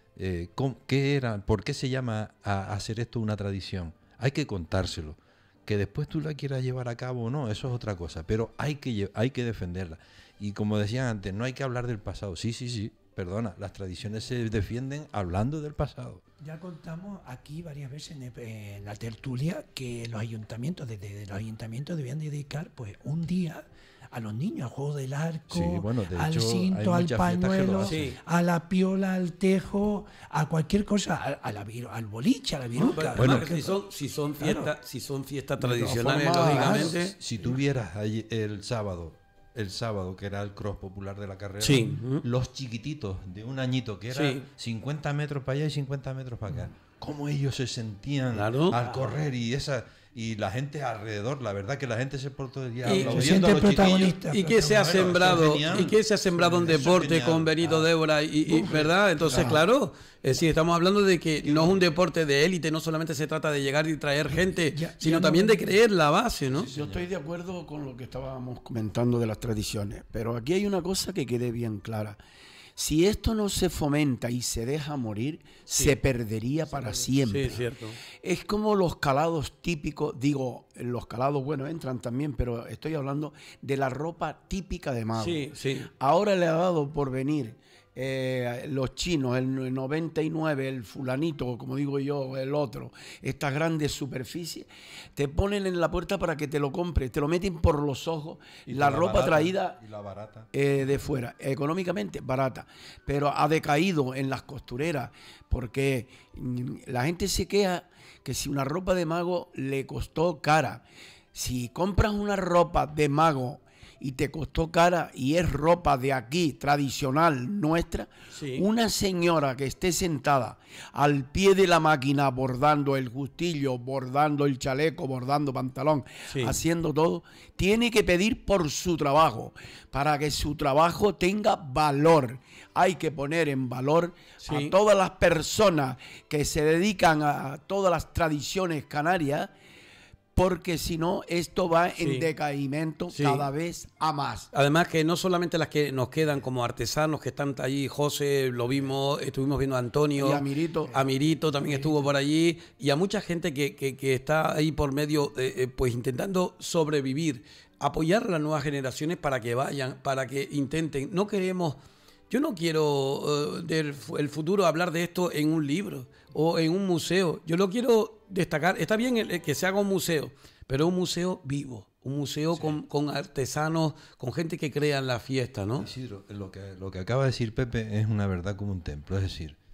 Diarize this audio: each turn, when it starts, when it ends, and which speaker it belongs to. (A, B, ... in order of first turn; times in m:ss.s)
0:00.2-0:16.2 A
0:16.4-0:33.8 B
0:25.5-0:28.1 A
0:27.8-0:28.2 C
0:32.8-0:37.1 C
0:33.1-0:33.6 A
0:34.4-0:34.7 B
0:35.6-0:37.0 D
0:36.4-0:36.9 B
0:37.1-0:54.2 A
0:41.6-0:42.2 C
0:44.1-0:44.4 C
0:48.3-0:48.8 C
0:52.8-1:06.7 C
0:52.8-0:55.0 B
0:54.8-0:57.8 A
0:58.5-0:59.6 D
0:59.2-0:59.6 A
1:01.4-1:01.7 D
1:04.7-1:05.7 B
1:06.5-1:07.1 A
1:06.7-1:12.2 D
1:12.8-1:39.8 D
1:17.2-1:18.0 C
1:25.2-1:25.9 C
1:38.6-1:40.5 A
1:40.5-2:19.5 D
1:58.3-1:58.6 C
2:06.3-2:06.6 C
2:14.4-2:14.7 C
2:20.3-2:24.5 D
2:22.0-2:22.3 C
2:23.1-2:23.5 C
2:24.5-2:41.8 C
2:30.2-2:31.0 D
2:31.7-2:32.0 B
2:42.3-2:55.9 C
2:52.5-2:52.8 A
2:55.8-2:59.6 A